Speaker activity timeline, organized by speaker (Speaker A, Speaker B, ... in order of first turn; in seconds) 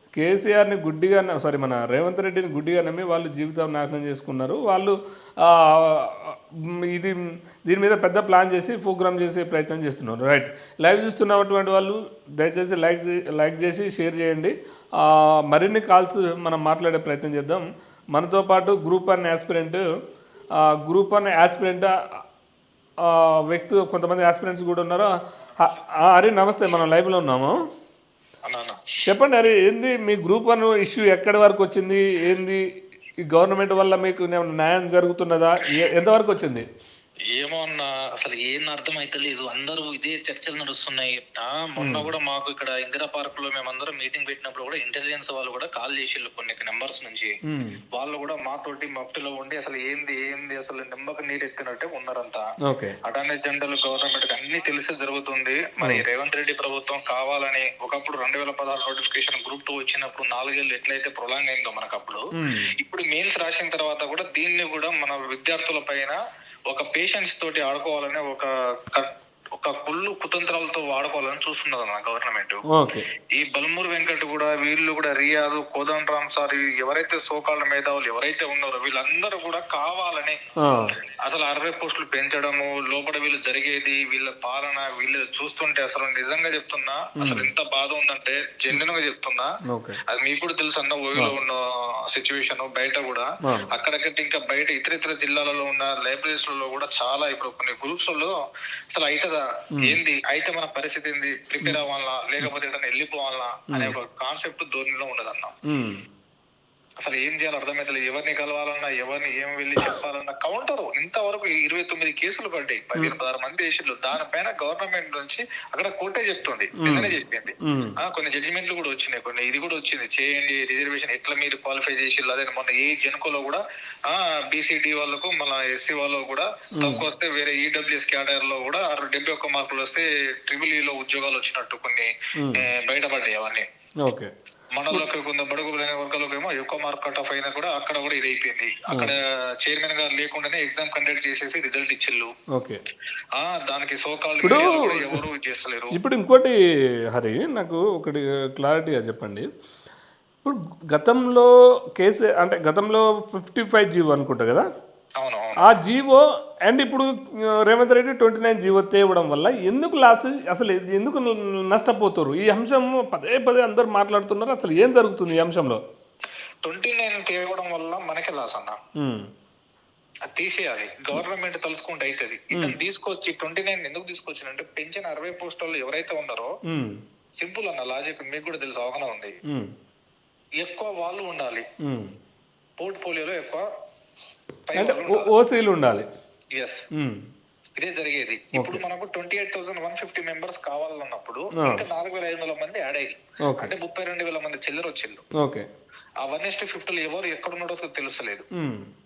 Speaker A: 0.2-19.8, 20.6-21.9, 23.1-27.6, 29.1-32.6, 33.3-36.7, 41.8-42.1, 47.5-47.8, 52.6-53.0, 62.4-62.7, 72.7-73.1, 80.6-80.9, 87.2-87.5, 89.7-90.0, 105.7-106.0, 116.8-118.0, 126.8-127.0, 134.0-134.3, 142.5-142.8, 144.4-145.2, 145.9-146.5, 147.1-149.5, 150.4-154.7, 155.6-157.1, 157.7-165.8, 169.0-169.3, 176.7-177.0, 181.8-182.1, 184.8-186.1, 186.9-187.2, 188.5-188.8, 191.6-191.8, 193.4-193.7, 195.4-195.6, 198.5-198.8
Speaker B: 28.5-28.8, 37.4-47.4, 47.9-52.5, 53.0-62.2, 62.8-66.2, 66.7-72.6, 73.3-80.4, 81.2-89.5, 90.1-91.6, 92.1-98.4, 98.9-105.5, 107.0-133.6, 134.7-142.3, 143.4-145.9, 155.2-155.6, 166.6-168.8, 170.3-176.5, 177.4-179.3, 180.6-181.7, 182.8-183.7, 184.7-185.3, 187.8-195.2, 196.2-198.4